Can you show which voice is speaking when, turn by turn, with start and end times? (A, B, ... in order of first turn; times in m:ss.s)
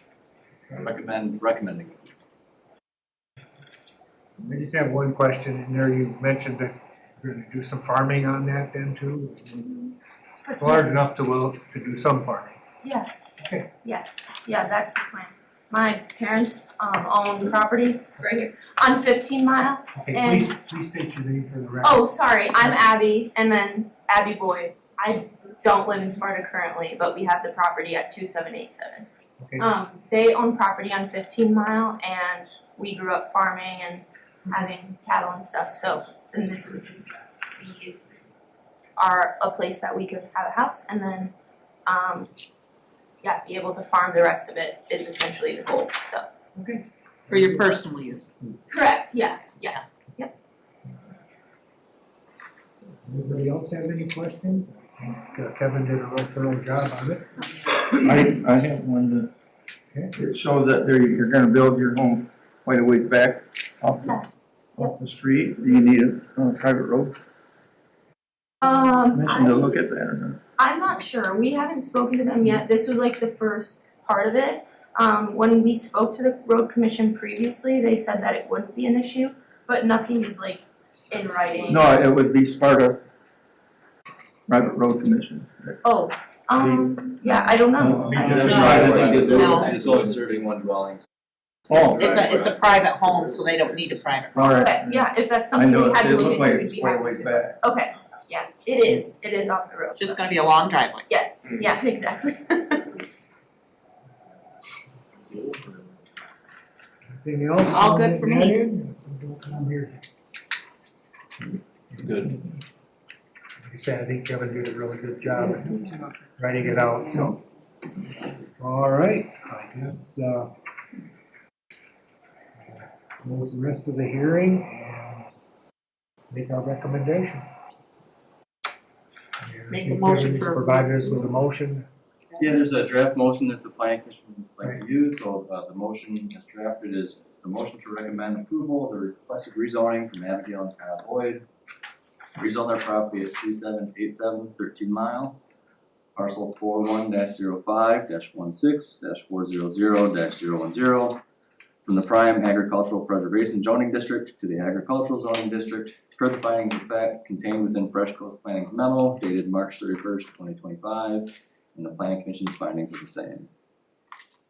0:00.7-0:02.1 A
0:04.4-0:09.8 B
0:10.4-0:10.9 C
0:10.6-0:12.6 B
0:12.8-0:13.1 C
0:13.4-0:13.7 B
0:13.8-0:20.5 C
0:19.9-0:22.1 B
0:21.8-0:29.0 C
0:29.4-0:29.7 B
0:29.6-0:38.0 C
0:39.0-0:41.3 C
0:41.8-0:42.3 C
0:43.2-0:46.3 C
0:46.5-0:47.7 B
0:47.3-0:48.3 D
0:48.7-0:50.3 C
0:53.0-0:57.2 B
0:57.9-0:59.3 E
1:00.2-1:04.2 E
1:04.8-1:07.2 E
1:08.6-1:09.7 C
1:09.1-1:10.4 E
1:10.6-1:21.9 C
1:21.7-1:23.0 E
1:24.5-1:25.8 E
1:25.8-1:29.1 C
1:26.6-1:27.0 E
1:27.8-1:30.2 E
1:28.1-1:31.0 A
1:28.4-1:29.7 D
1:31.7-1:32.0 E
1:31.7-1:32.7 A
1:31.9-1:34.5 D
1:34.3-1:34.9 E
1:34.4-1:40.4 C
1:35.5-1:37.6 E
1:40.0-1:41.1 D
1:41.1-1:42.9 C
1:47.1-1:50.0 B
1:47.7-1:48.6 D
1:53.7-1:55.8 B
1:56.4-1:57.4 B
1:58.6-2:00.5 B
2:02.7-2:05.3 B
2:06.3-2:07.4 B
2:09.4-2:11.8 B
2:09.7-2:11.1 D
2:12.4-2:21.4 A
2:22.4-2:25.4 A
2:26.2-2:31.2 A
2:31.8-2:43.5 A